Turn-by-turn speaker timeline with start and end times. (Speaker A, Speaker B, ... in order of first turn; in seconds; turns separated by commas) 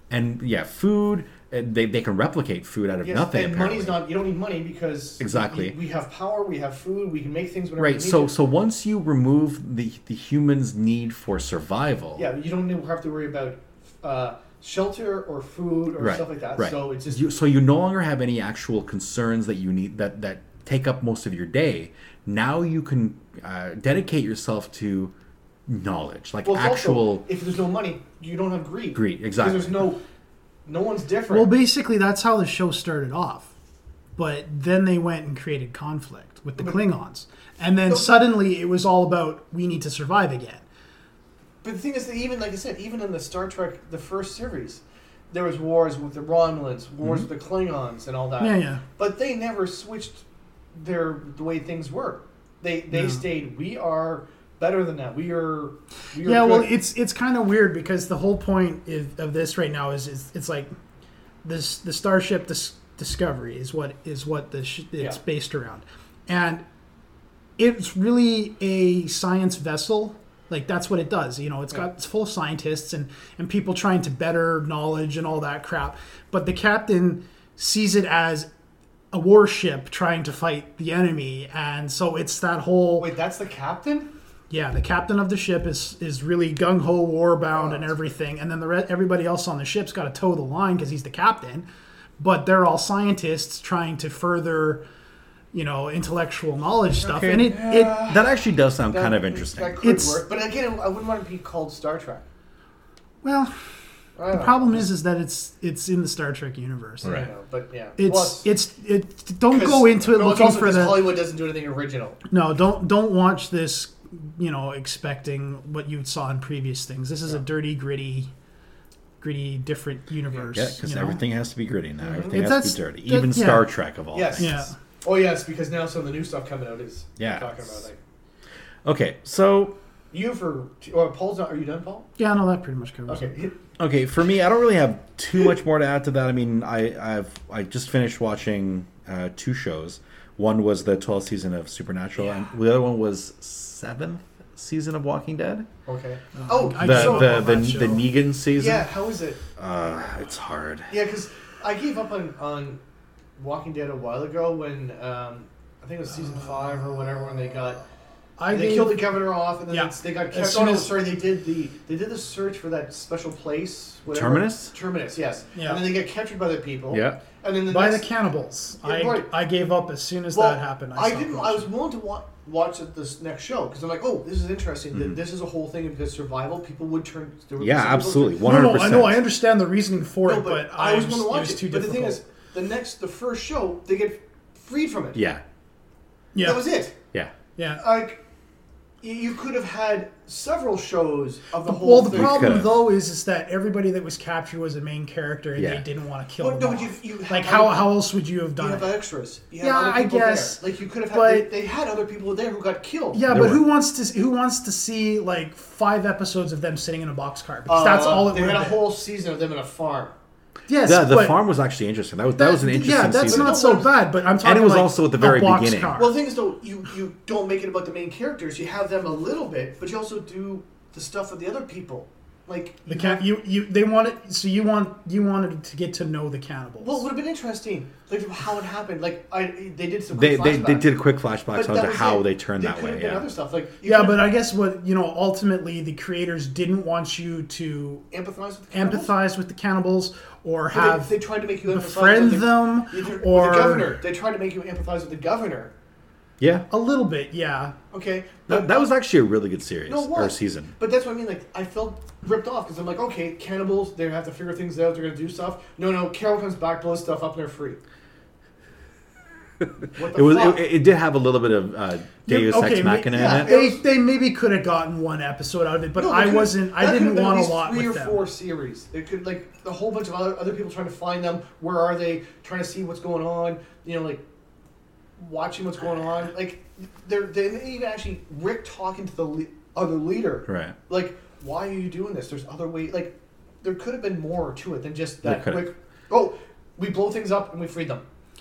Speaker A: 0.1-4.0, Speaker B: 3.0-8.3, Speaker A: 5.2-5.8, Speaker A: 7.8-12.3, Speaker B: 12.2-17.2, Speaker A: 16.0-25.1, Speaker A: 25.7-27.2, Speaker B: 26.4-30.0, Speaker A: 28.9-29.9, Speaker B: 30.7-31.5, Speaker C: 31.3-33.5, Speaker C: 34.2-40.6, Speaker B: 37.9-38.2, Speaker B: 41.6-56.7, Speaker C: 48.4-48.8, Speaker C: 52.9-53.2, Speaker C: 56.2-60.7, Speaker C: 61.4-66.6, Speaker C: 67.6-78.5, Speaker C: 79.1-83.1, Speaker B: 83.0-84.1, Speaker C: 84.5-91.7, Speaker B: 87.5-88.0, Speaker C: 92.2-94.8, Speaker C: 95.5-98.0, Speaker B: 97.0-98.4, Speaker A: 97.2-99.8, Speaker B: 98.9-102.3, Speaker C: 99.8-100.2, Speaker C: 103.2-103.5, Speaker B: 104.2-104.9, Speaker C: 104.3-107.1, Speaker A: 107.0-107.3, Speaker B: 107.0-108.5, Speaker C: 108.0-111.1, Speaker B: 109.5-112.2, Speaker C: 112.3-118.3, Speaker C: 119.2-121.2, Speaker A: 120.5-124.6, Speaker B: 122.0-122.5, Speaker C: 122.3-123.7, Speaker B: 124.1-128.0, Speaker C: 124.4-124.8, Speaker A: 127.2-127.7, Speaker A: 128.8-129.8, Speaker B: 130.1-132.1, Speaker C: 132.2-133.3, Speaker B: 133.1-133.5, Speaker A: 133.8-145.7, Speaker B: 145.9-147.6, Speaker C: 146.4-148.1, Speaker A: 146.8-148.9, Speaker B: 148.6-149.4, Speaker A: 149.6-150.9, Speaker B: 150.9-152.8, Speaker B: 153.4-157.8, Speaker C: 158.4-159.0, Speaker B: 158.5-168.1, Speaker C: 159.7-160.9, Speaker A: 164.1-164.7, Speaker C: 165.6-165.8, Speaker A: 166.9-167.2, Speaker C: 167.7-171.7, Speaker B: 168.8-169.3, Speaker B: 170.3-178.4, Speaker A: 174.9-175.2, Speaker A: 177.6-179.2, Speaker C: 178.4-182.2, Speaker B: 180.3-185.2, Speaker A: 185.2-185.4, Speaker C: 186.3-186.7, Speaker B: 186.4-187.0, Speaker C: 187.6-187.8, Speaker B: 187.8-188.2, Speaker B: 189.0-192.6, Speaker C: 191.7-198.9, Speaker A: 192.1-192.8, Speaker A: 195.6-195.8, Speaker B: 196.4-198.0, Speaker B: 198.6-203.3, Speaker C: 199.6-201.5, Speaker C: 203.1-208.8, Speaker A: 203.3-203.6, Speaker B: 207.7-210.2, Speaker C: 210.7-211.4, Speaker A: 210.8-213.6, Speaker C: 212.4-216.2, Speaker B: 213.2-214.1, Speaker A: 214.4-216.0, Speaker B: 216.0-223.2, Speaker C: 222.9-227.0, Speaker B: 226.8-230.9, Speaker A: 230.1-233.3, Speaker B: 231.5-234.3, Speaker C: 233.8-238.1, Speaker B: 238.1-239.1, Speaker C: 238.7-244.0, Speaker B: 240.7-245.7, Speaker A: 246.4-246.7, Speaker C: 246.7-247.8, Speaker B: 247.9-248.9, Speaker A: 248.5-250.7, Speaker B: 249.9-257.8, Speaker A: 259.6-263.5, Speaker B: 259.9-260.6, Speaker C: 262.3-268.2, Speaker B: 263.1-263.8, Speaker B: 265.9-274.2, Speaker B: 275.2-288.0, Speaker A: 280.5-280.8, Speaker A: 285.2-285.7